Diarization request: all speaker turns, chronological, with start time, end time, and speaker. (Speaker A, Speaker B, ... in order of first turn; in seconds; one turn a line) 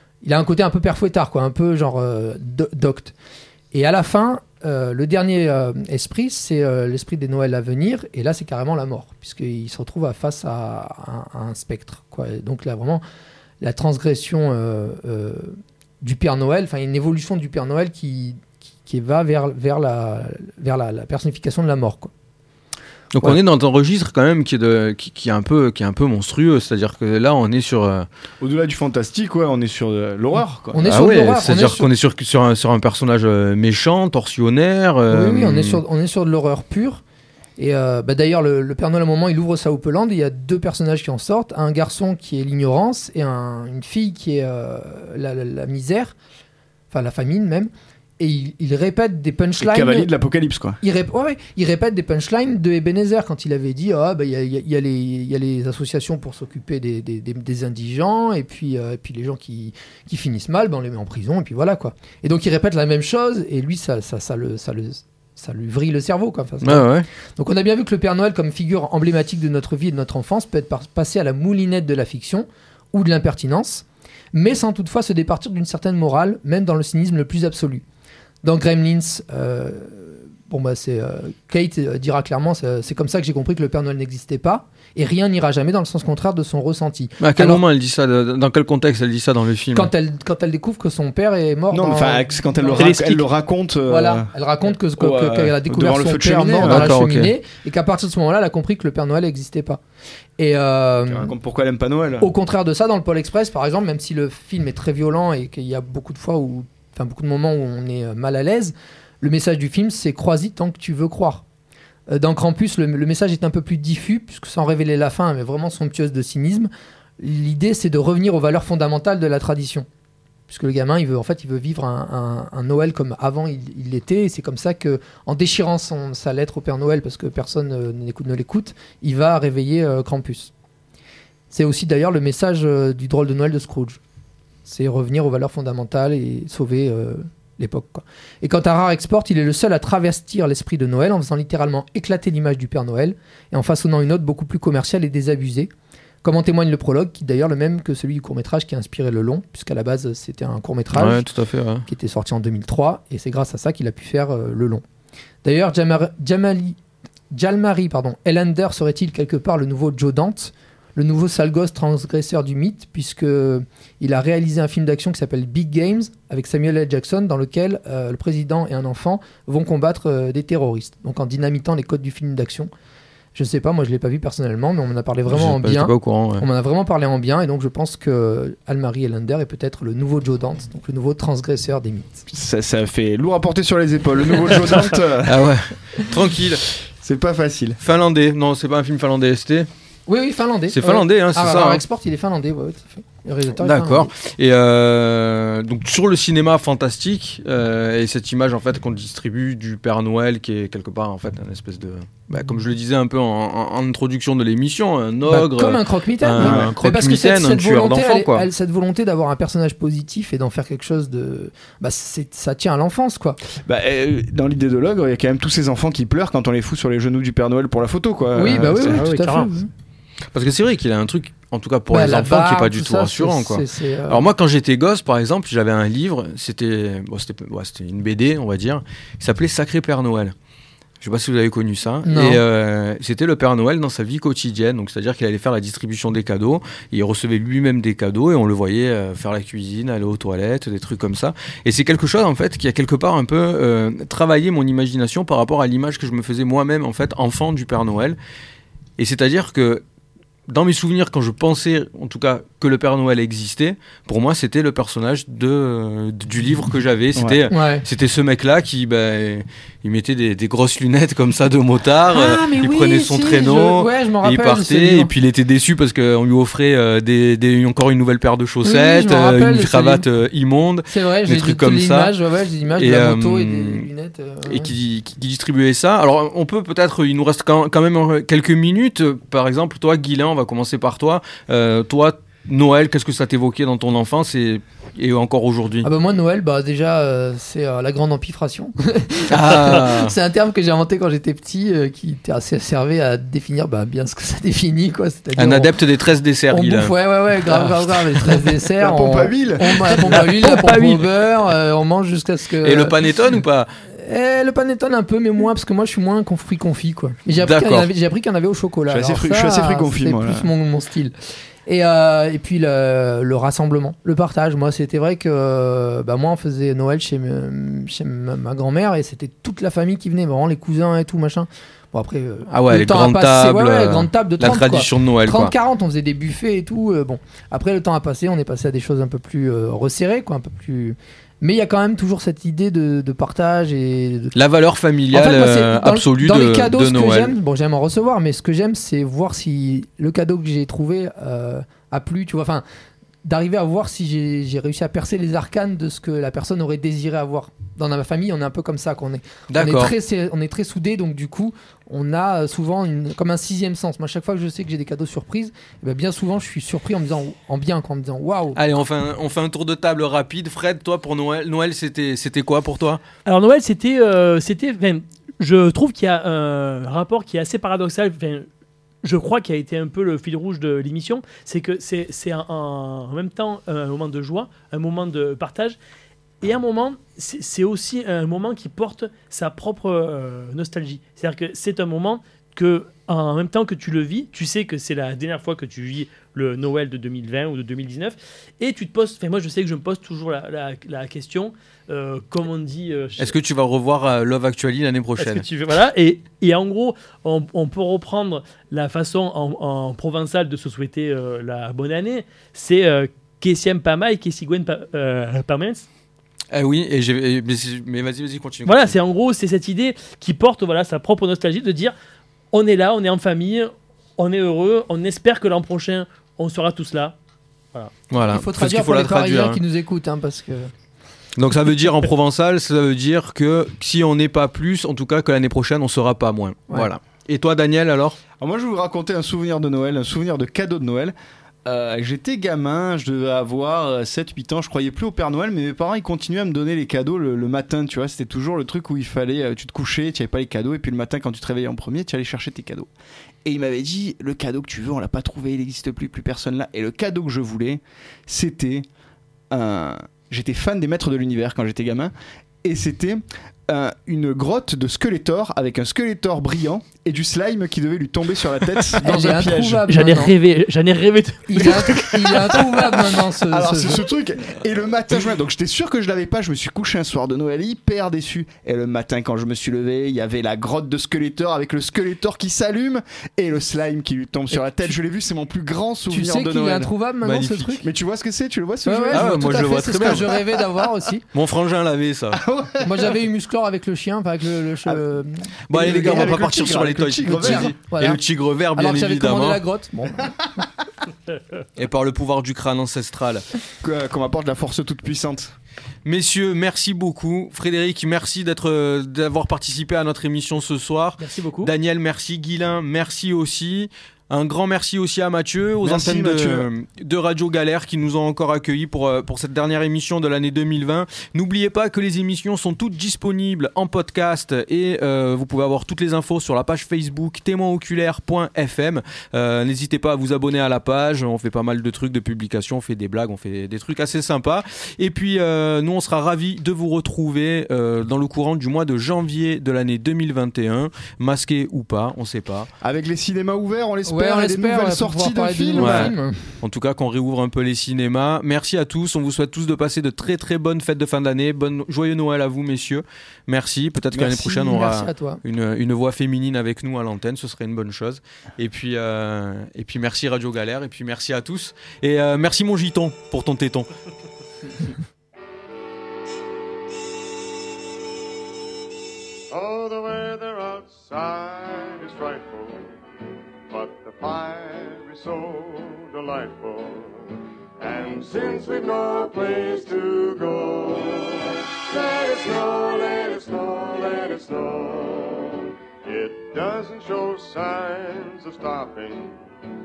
Speaker A: 0.2-3.1
Speaker A: 3.7-13.0
Speaker A: 13.6-22.1
Speaker B: 23.1-28.1
Speaker C: 28.4-30.8
Speaker A: 30.7-31.9
Speaker B: 30.8-35.8
Speaker A: 35.1-37.0
Speaker A: 37.6-46.1
Speaker A: 46.9-50.1
Speaker C: 49.6-50.8
Speaker A: 50.8-66.9
Speaker B: 66.6-67.1
Speaker A: 67.4-77.8
Speaker A: 78.4-87.6
Speaker B: 87.2-89.9
Speaker A: 89.7-92.9
Speaker C: 91.7-94.3
Speaker D: 92.8-93.2
Speaker A: 93.9-99.8
Speaker C: 95.0-96.9
Speaker B: 96.6-97.3
Speaker A: 100.4-101.3
Speaker C: 101.1-102.3
Speaker A: 102.2-111.4
Speaker A: 112.1-119.9
Speaker A: 120.5-130.5
Speaker A: 131.5-134.0
Speaker A: 134.6-145.7
Speaker A: 146.2-151.2
Speaker B: 150.9-151.8
Speaker A: 151.8-154.8
Speaker A: 155.4-156.8
Speaker A: 157.3-172.7
Speaker A: 173.3-182.1
Speaker B: 175.3-176.4
Speaker C: 182.3-185.5
Speaker B: 185.2-186.7
Speaker C: 187.0-187.8
Speaker B: 187.8-189.7
Speaker A: 190.1-194.1
Speaker B: 190.7-191.8
Speaker B: 193.6-208.5
Speaker A: 205.3-213.4
Speaker C: 206.4-206.7
Speaker C: 213.6-219.1
Speaker A: 218.3-219.7
Speaker D: 218.8-219.5
Speaker B: 220.3-230.3
Speaker A: 221.9-224.2
Speaker B: 231.0-248.2
Speaker A: 232.0-232.4
Speaker B: 249.0-249.8
Speaker B: 250.5-272.1
Speaker A: 257.5-257.8
Speaker A: 262.1-265.1
Speaker A: 268.6-270.0
Speaker A: 270.9-274.7
Speaker B: 272.7-273.9
Speaker B: 274.4-285.9
Speaker A: 285.8-295.7
Speaker B: 289.3-290.1
Speaker B: 295.4-296.9
Speaker A: 296.5-303.0
Speaker B: 297.4-298.5
Speaker C: 298.8-300.5
Speaker D: 300.6-301.0
Speaker B: 302.6-303.7
Speaker A: 303.9-334.4
Speaker B: 307.4-307.9
Speaker C: 308.9-310.5
Speaker B: 322.5-325.5
Speaker B: 334.3-337.3
Speaker A: 335.1-342.6
Speaker A: 343.2-358.6
Speaker B: 349.5-349.9
Speaker B: 358.6-363.0
Speaker D: 363.2-368.5
Speaker D: 369.0-375.8
Speaker D: 376.4-393.4
Speaker B: 393.2-395.4
Speaker D: 395.2-405.8
Speaker B: 406.5-408.9
Speaker D: 408.6-411.9
Speaker D: 412.5-417.1
Speaker B: 418.1-419.6
Speaker A: 418.2-420.7
Speaker B: 421.4-428.2
Speaker C: 428.4-442.9
Speaker C: 443.4-448.9
Speaker C: 449.5-452.1
Speaker C: 452.6-459.9
Speaker A: 459.0-460.3
Speaker D: 459.9-462.4
Speaker A: 461.5-464.0
Speaker C: 463.5-476.9
Speaker A: 474.5-474.9
Speaker A: 476.1-477.9
Speaker B: 477.2-477.8
Speaker C: 477.8-480.4
Speaker A: 478.8-481.2
Speaker B: 479.1-480.4
Speaker B: 481.3-482.4
Speaker C: 482.4-483.1
Speaker A: 482.8-486.4
Speaker B: 485.7-489.6
Speaker C: 485.7-487.8
Speaker A: 487.2-488.2
Speaker A: 488.7-490.3
Speaker B: 491.8-493.4
Speaker C: 493.8-495.5
Speaker B: 496.0-532.7
Speaker D: 501.2-501.7
Speaker C: 505.8-506.7
Speaker C: 532.8-536.1
Speaker A: 534.0-536.5
Speaker B: 535.8-553.9
Speaker A: 544.1-545.4
Speaker E: 559.5-563.0
Speaker E: 563.7-579.4